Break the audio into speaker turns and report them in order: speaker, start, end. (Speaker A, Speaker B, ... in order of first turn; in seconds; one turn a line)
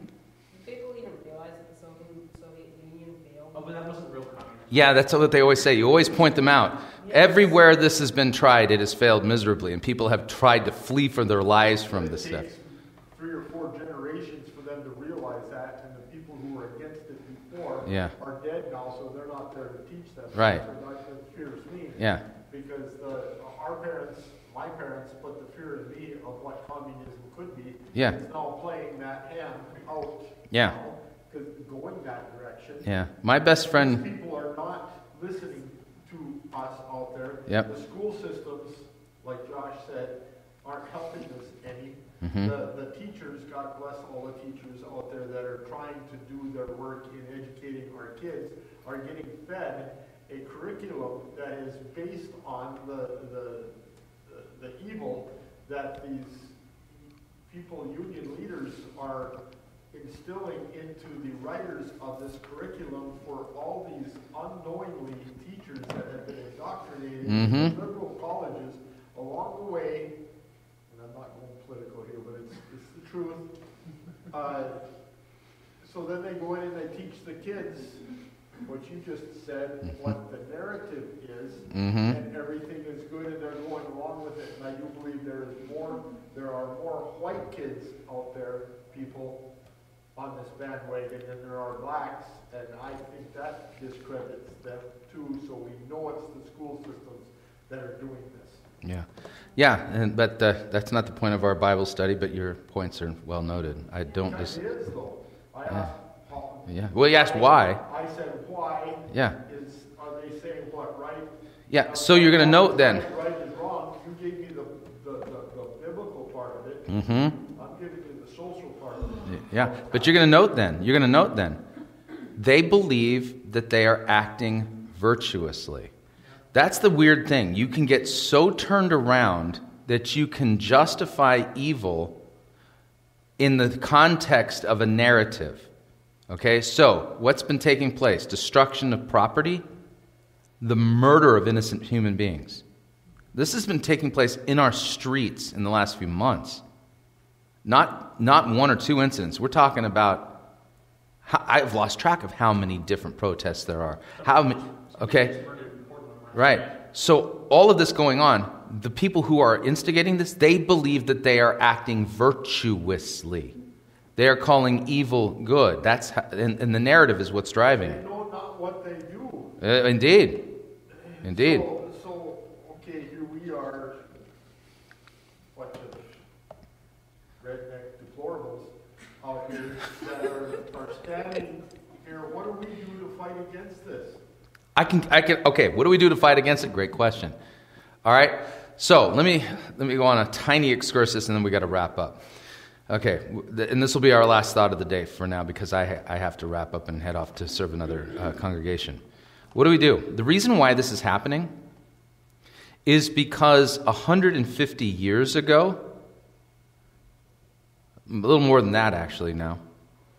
Speaker A: 0.5-3.8
Speaker B: 3.5-4.8
Speaker C: 4.7-12.5
Speaker A: 7.0-7.5
Speaker D: 11.8-32.9
Speaker C: 17.8-18.1
Speaker C: 20.3-20.6
Speaker C: 22.0-22.2
Speaker C: 30.5-30.8
Speaker C: 32.8-34.0
Speaker D: 33.5-59.4
Speaker C: 42.2-42.5
Speaker D: 59.9-70.2
Speaker C: 67.2-67.7
Speaker D: 70.9-73.5
Speaker D: 74.3-74.9
Speaker D: 75.8-78.1
Speaker D: 78.6-89.5
Speaker C: 81.7-82.2
Speaker D: 90.1-98.6
Speaker C: 98.8-104.6
Speaker D: 104.2-116.9
Speaker C: 106.7-107.8
Speaker C: 109.1-109.4
Speaker C: 111.7-113.0
Speaker C: 116.9-117.4
Speaker D: 117.4-120.1
Speaker C: 119.2-121.6
Speaker C: 122.3-125.9
Speaker C: 126.5-132.2
Speaker C: 133.4-135.7
Speaker C: 136.3-139.6
Speaker C: 140.6-142.6
Speaker C: 143.3-146.6
Speaker C: 147.6-150.4
Speaker C: 151.2-155.3
Speaker B: 154.2-156.8
Speaker C: 156.3-163.6
Speaker C: 164.2-168.0
Speaker D: 167.8-169.6
Speaker C: 169.6-170.4
Speaker D: 170.9-174.1
Speaker C: 171.2-171.7
Speaker D: 175.5-176.2
Speaker D: 177.4-184.2
Speaker C: 184.7-187.3
Speaker C: 188.0-192.2
Speaker C: 192.9-199.0
Speaker C: 199.5-201.5
Speaker C: 202.8-205.9
Speaker C: 208.1-209.6